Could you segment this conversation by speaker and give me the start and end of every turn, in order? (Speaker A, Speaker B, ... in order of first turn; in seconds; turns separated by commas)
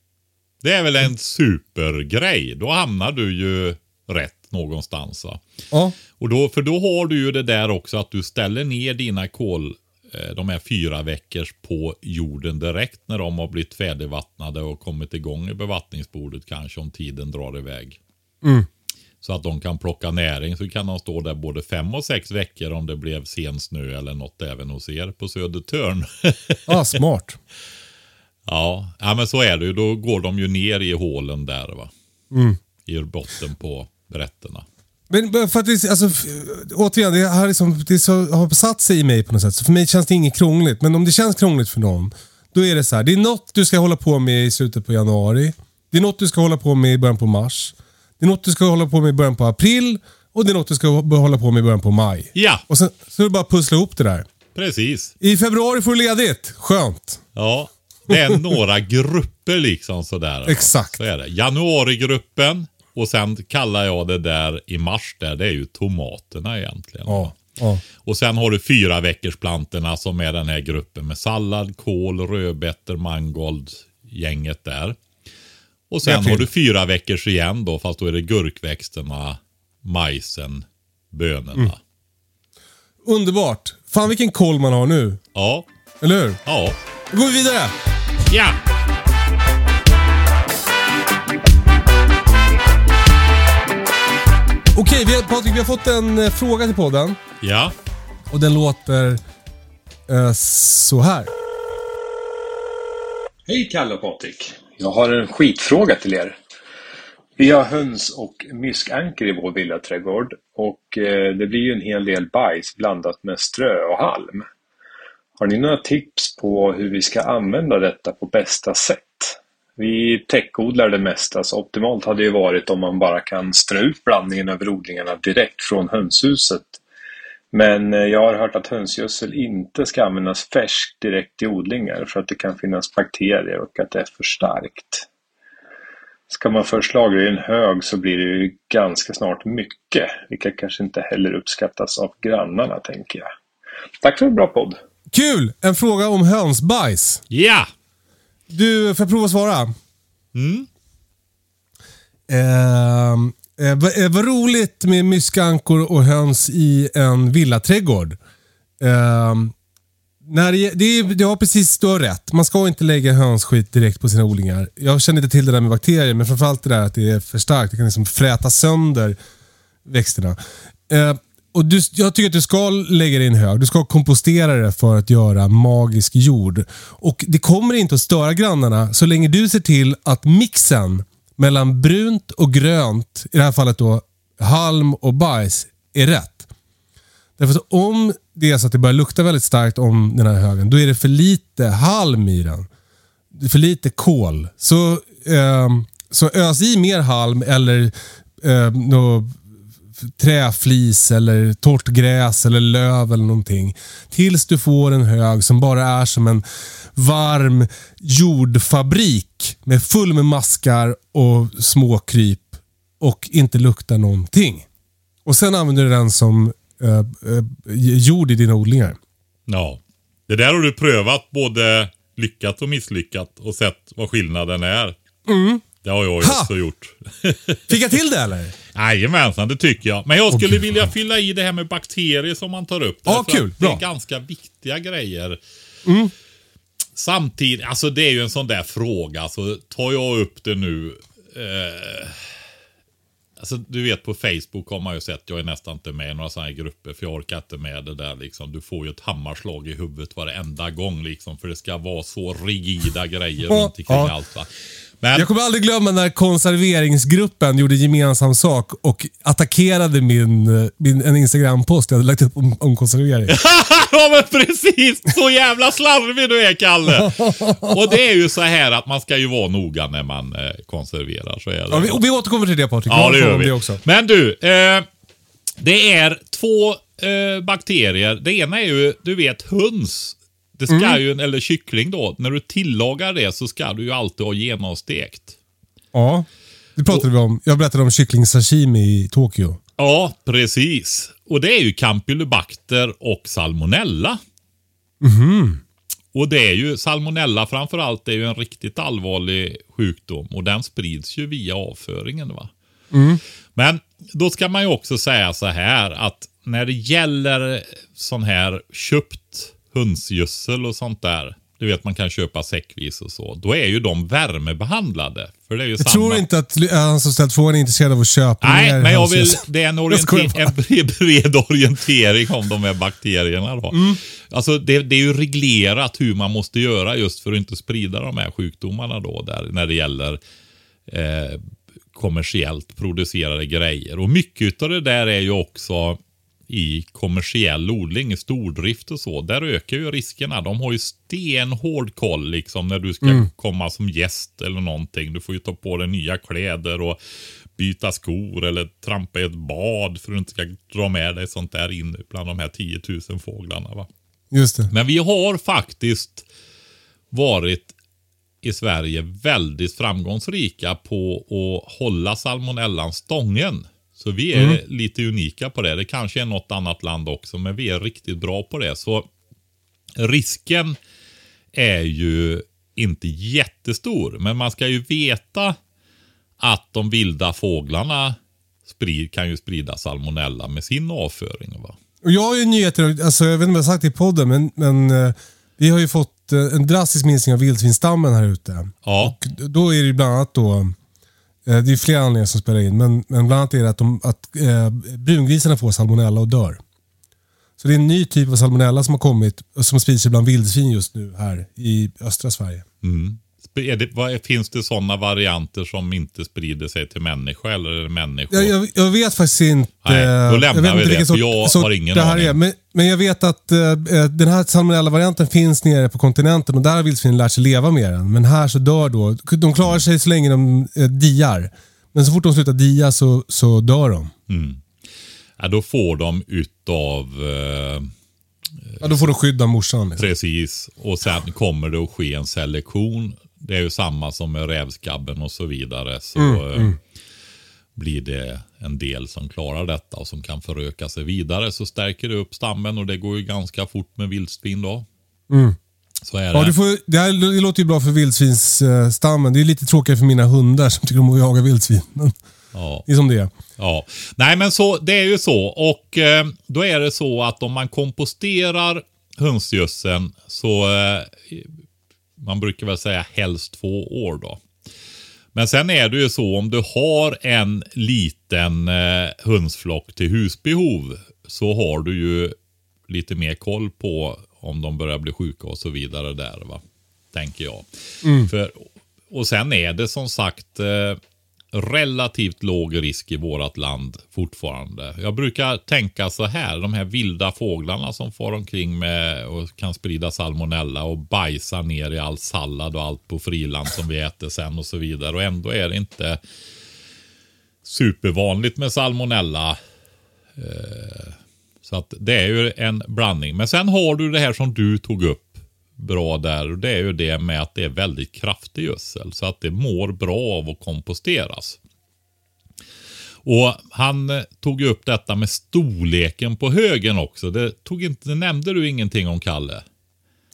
Speaker A: 0.6-5.4, Speaker B: 5.7-6.0, Speaker A: 6.2-18.0, Speaker B: 18.4-18.7, Speaker A: 19.2-26.8, Speaker B: 26.7-27.4, Speaker A: 28.5-31.9, Speaker B: 32.3-32.6, Speaker A: 32.9-34.6, Speaker B: 35.1-54.3, Speaker A: 52.4-52.6, Speaker A: 54.5-55.1, Speaker B: 55.2-57.2, Speaker A: 57.4-67.4, Speaker B: 58.1-58.4, Speaker B: 60.5-61.0, Speaker B: 67.1-67.8, Speaker A: 68.0-75.0, Speaker A: 75.9-81.8, Speaker B: 76.0-76.5, Speaker B: 83.0-85.2, Speaker A: 85.3-85.7, Speaker B: 86.0-86.4, Speaker A: 86.5-86.8, Speaker B: 87.1-87.8, Speaker A: 88.3-88.6, Speaker B: 94.7-97.2, Speaker A: 97.4-97.7, Speaker B: 98.3-99.2, Speaker B: 100.1-101.3, Speaker C: 103.5-106.4, Speaker C: 107.4-114.5, Speaker C: 115.4-126.8, Speaker C: 127.5-135.1, Speaker C: 136.3-143.3, Speaker C: 144.0-144.8, Speaker B: 145.1-147.2, Speaker A: 147.3-147.7, Speaker B: 148.5-149.8, Speaker A: 150.3-150.7, Speaker B: 152.3-158.2, Speaker B: 158.8-159.5, Speaker B: 160.2-169.2, Speaker B: 169.9-186.5, Speaker B: 187.4-192.7, Speaker B: 193.3-199.4, Speaker B: 200.0-206.4, Speaker B: 206.9-214.7, Speaker B: 215.2-219.0, Speaker A: 219.5-225.0, Speaker B: 225.2-225.6, Speaker A: 225.8-227.8, Speaker B: 226.2-226.5, Speaker B: 227.7-228.5, Speaker A: 228.7-235.4, Speaker B: 230.3-230.8, Speaker B: 233.1-233.8, Speaker B: 235.8-236.1, Speaker A: 237.0-242.3, Speaker A: 243.4-254.5, Speaker B: 253.5-254.2, Speaker A: 255.0-255.3, Speaker B: 255.1-263.3, Speaker A: 263.3-272.0, Speaker B: 266.9-267.8, Speaker B: 271.7-273.8, Speaker A: 272.9-274.9, Speaker A: 275.6-285.4, Speaker B: 280.7-281.0, Speaker B: 285.9-289.6, Speaker A: 289.8-294.2, Speaker B: 295.0-295.6, Speaker A: 296.1-302.5, Speaker B: 302.9-303.2, Speaker A: 303.6-316.2, Speaker B: 315.8-320.5, Speaker A: 318.4-330.2, Speaker B: 323.7-324.0, Speaker A: 330.9-347.0, Speaker B: 343.0-343.3, Speaker A: 347.6-353.9, Speaker B: 354.3-354.7, Speaker A: 354.7-356.2, Speaker A: 357.1-357.7, Speaker A: 358.4-369.1, Speaker B: 364.3-364.6, Speaker A: 370.0-370.8, Speaker A: 371.5-375.6, Speaker A: 376.4-381.8, Speaker B: 382.0-390.8, Speaker A: 388.8-389.2, Speaker B: 391.5-396.6, Speaker B: 397.6-402.6, Speaker A: 402.8-408.6, Speaker B: 408.3-424.1, Speaker A: 409.9-412.4, Speaker A: 424.3-424.6, Speaker A: 425.4-427.9, Speaker A: 428.7-429.1, Speaker B: 428.8-430.1, Speaker A: 430.0-436.8, Speaker B: 436.2-436.8, Speaker A: 437.8-444.9, Speaker B: 445.3-445.6, Speaker A: 446.1-446.6, Speaker B: 446.3-452.1, Speaker A: 452.5-452.9, Speaker B: 452.9-453.3, Speaker A: 453.6-461.5, Speaker A: 462.2-464.4, Speaker A: 465.4-472.4, Speaker A: 472.9-476.6, Speaker A: 477.1-477.6, Speaker B: 478.0-478.3, Speaker A: 478.2-481.0, Speaker A: 481.5-496.2, Speaker A: 497.6-499.6, Speaker A: 500.4-511.6, Speaker A: 513.2-519.6